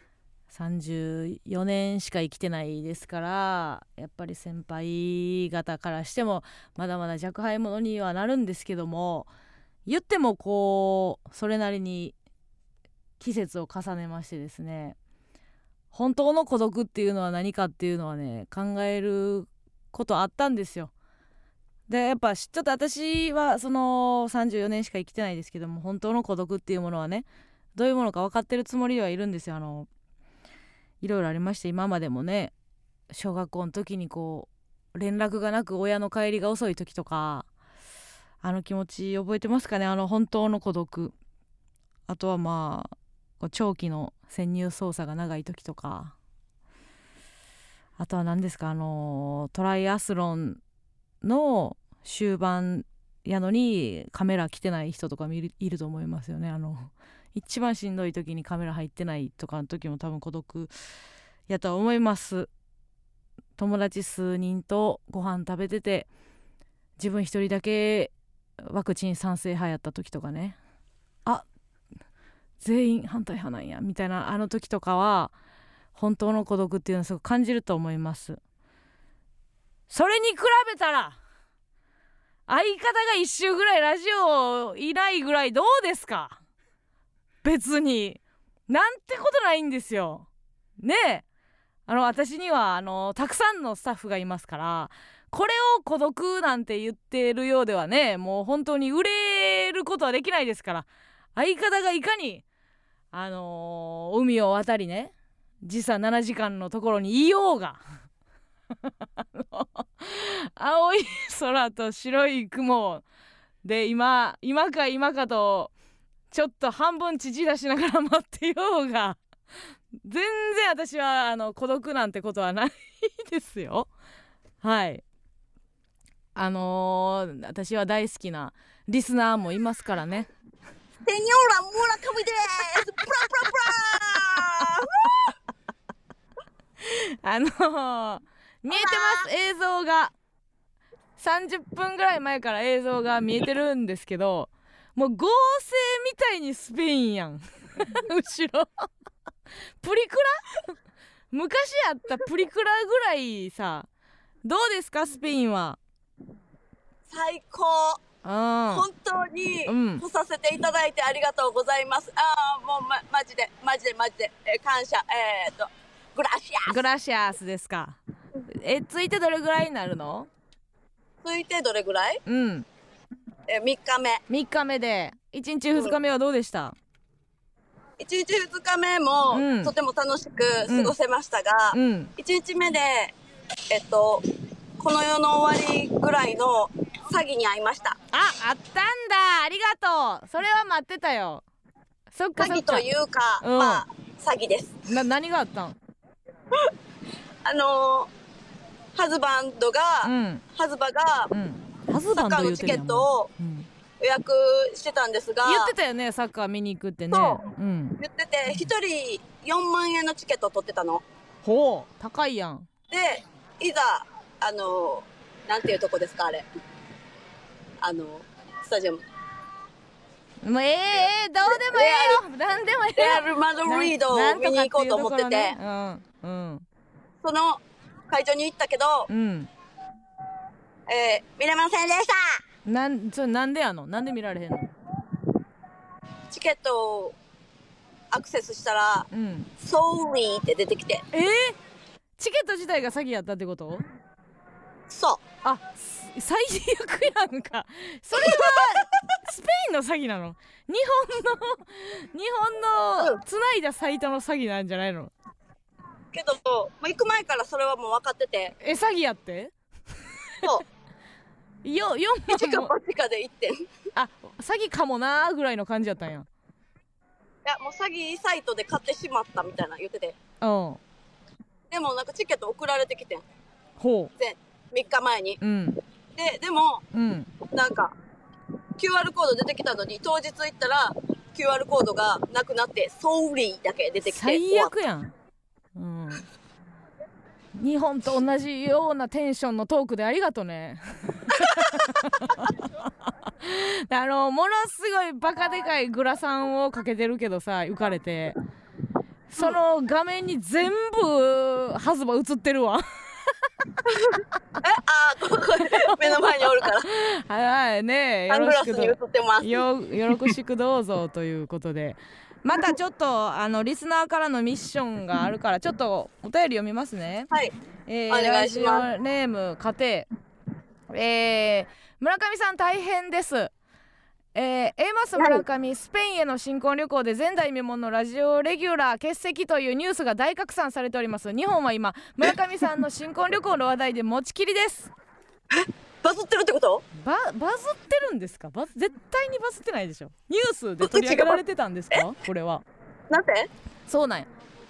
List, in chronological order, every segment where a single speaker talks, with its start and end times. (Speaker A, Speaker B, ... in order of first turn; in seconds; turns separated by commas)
Speaker A: 0.5-9.3, Speaker A: 9.8-12.1, Speaker A: 13.2-15.0, Speaker A: 15.9-20.9, Speaker A: 21.9-29.9, Speaker A: 31.0-32.5, Speaker A: 33.1-37.5, Speaker A: 38.4-41.1, Speaker A: 42.1-46.1, Speaker A: 48.0-50.6, Speaker A: 51.2-60.7, Speaker A: 61.5-62.5, Speaker A: 63.6-66.1, Speaker A: 67.0-70.6, Speaker A: 72.6-75.3, Speaker A: 75.9-78.4, Speaker A: 79.9-81.2, Speaker A: 82.5-86.4, Speaker A: 87.4-90.3, Speaker A: 90.8-91.2, Speaker A: 91.9-102.4, Speaker A: 103.1-107.8, Speaker A: 109.3-113.0, Speaker A: 113.6-115.7, Speaker A: 116.3-119.2, Speaker A: 120.0-123.9, Speaker A: 124.6-125.0, Speaker A: 126.3-130.3, Speaker B: 131.0-135.1, Speaker A: 134.4-134.8, Speaker A: 136.8-140.1, Speaker B: 138.7-139.2, Speaker A: 141.2-148.9, Speaker A: 149.8-150.6, Speaker A: 151.3-153.9, Speaker A: 154.4-155.8, Speaker B: 157.1-158.0, Speaker A: 158.2-158.8, Speaker B: 158.7-166.8, Speaker A: 159.7-160.0, Speaker A: 166.7-168.0, Speaker A: 168.5-170.3, Speaker B: 171.2-172.2, Speaker A: 172.2-172.7, Speaker B: 173.5-174.2, Speaker A: 174.3-176.8, Speaker B: 178.0-183.1, Speaker A: 179.3-179.7, Speaker A: 180.7-180.9, Speaker A: 181.7-182.1, Speaker B: 183.7-184.2, Speaker B: 184.8-188.0, Speaker A: 188.1-191.4, Speaker A: 192.1-192.8, Speaker B: 192.4-194.8, Speaker A: 193.4-193.8, Speaker A: 194.9-195.8, Speaker B: 197.4-198.1, Speaker B: 198.9-201.3, Speaker A: 200.0-200.4, Speaker A: 201.3-203.7, Speaker B: 202.1-203.3, Speaker B: 204.0-205.7, Speaker A: 205.4-208.0, Speaker B: 207.1-207.4, Speaker B: 208.0-211.0, Speaker A: 211.4-212.7, Speaker B: 212.9-216.4, Speaker B: 217.8-219.0, Speaker A: 220.4-226.6, Speaker B: 221.5-222.2, Speaker B: 223.0-225.5, Speaker B: 227.2-229.1, Speaker A: 229.1-229.5, Speaker B: 230.9-232.4, Speaker A: 232.7-234.7, Speaker B: 236.3-237.1, Speaker B: 238.1-239.1, Speaker A: 239.1-239.5, Speaker B: 239.6-241.0, Speaker A: 241.1-241.6, Speaker A: 242.2-243.8, Speaker B: 244.9-245.2, Speaker A: 245.4-255.1, Speaker B: 256.1-258.5, Speaker A: 258.6-259.5, Speaker A: 261.6-262.7, Speaker B: 262.3-263.6, Speaker A: 263.9-266.3, Speaker B: 267.4-270.1, Speaker A: 270.4-270.8, Speaker B: 271.7-273.2, Speaker A: 273.8-274.1, Speaker B: 274.2-275.4, Speaker A: 275.4-275.8, Speaker B: 276.1-276.8, Speaker A: 276.9-277.3, Speaker B: 277.5-277.9, Speaker B: 278.8-284.7, Speaker A: 284.0-285.1, Speaker A: 285.7-286.3, Speaker A: 287.5-292.5, Speaker A: 293.4-298.4, Speaker A: 299.3-302.8, Speaker B: 303.9-306.9, Speaker A: 305.6-317.3, Speaker B: 308.3-309.6, Speaker A: 317.9-320.1, Speaker B: 318.1-318.8, Speaker A: 320.9-323.5, Speaker A: 324.3-334.9, Speaker B: 325.1-325.4, Speaker B: 335.5-336.8, Speaker A: 336.9-342.6, Speaker B: 340.8-341.4, Speaker B: 343.1-343.5, Speaker A: 343.9-344.3